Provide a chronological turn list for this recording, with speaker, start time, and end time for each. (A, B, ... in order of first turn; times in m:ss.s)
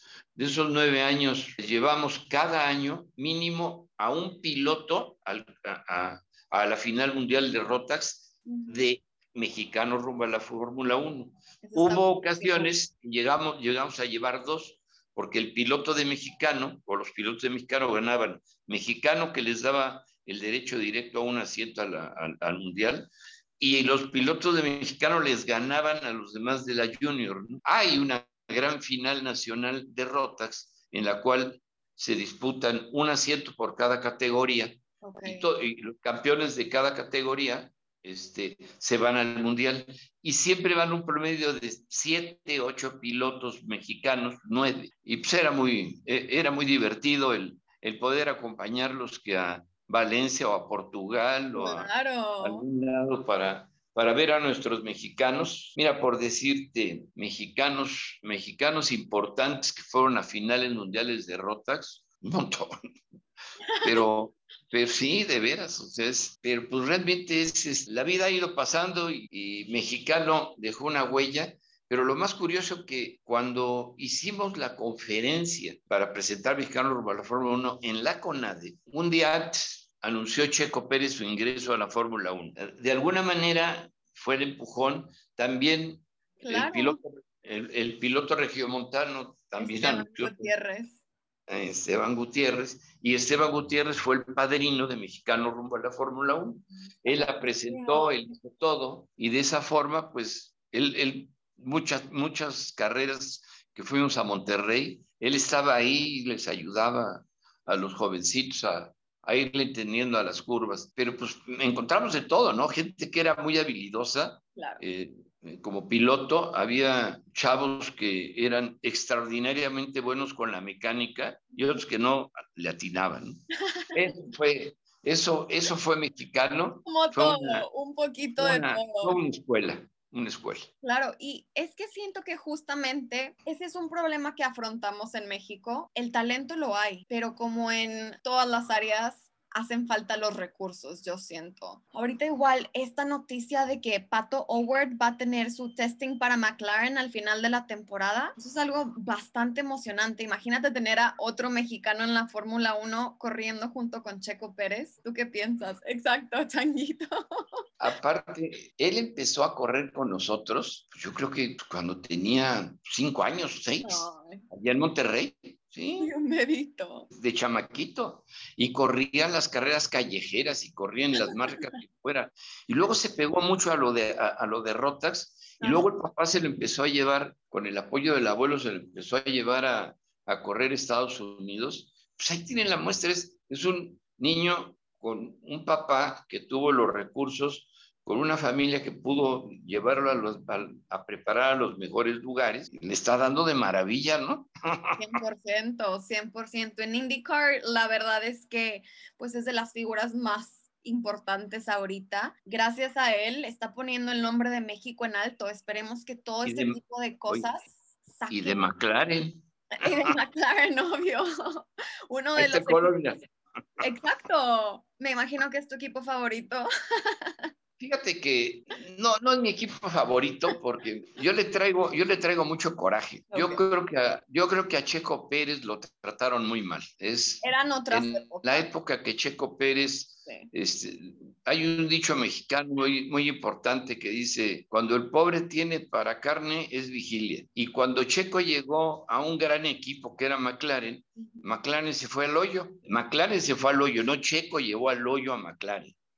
0:00.3-1:02.7 A
0:08.4-0:08.8 B
0:11.6-0:12.7 B
0:35.0-0:35.4 B
0:51.5-0:52.6 B
1:03.6-1:04.0 B
1:03.8-1:30.5 A
1:26.4-1:27.0 B
1:29.6-1:31.0 B
1:31.5-2:03.4 A
1:37.0-1:38.1 B
1:54.6-1:54.8 B
2:03.6-2:04.0 B
2:03.9-2:07.7 A
2:06.9-2:09.2 B
2:08.4-2:10.7 A
2:10.8-2:37.4 B
2:37.8-2:46.1 A
2:43.8-2:44.4 B
2:46.0-2:47.1 B
2:47.1-3:15.2 A
2:55.6-2:55.9 B
3:15.0-3:28.7 B
3:26.4-3:27.5 A
3:28.3-3:30.1 A
3:29.7-3:33.2 B
3:32.3-3:33.2 A
3:33.8-3:37.5 B
3:37.8-4:06.0 A
3:43.3-3:43.6 B
3:47.4-3:48.6 B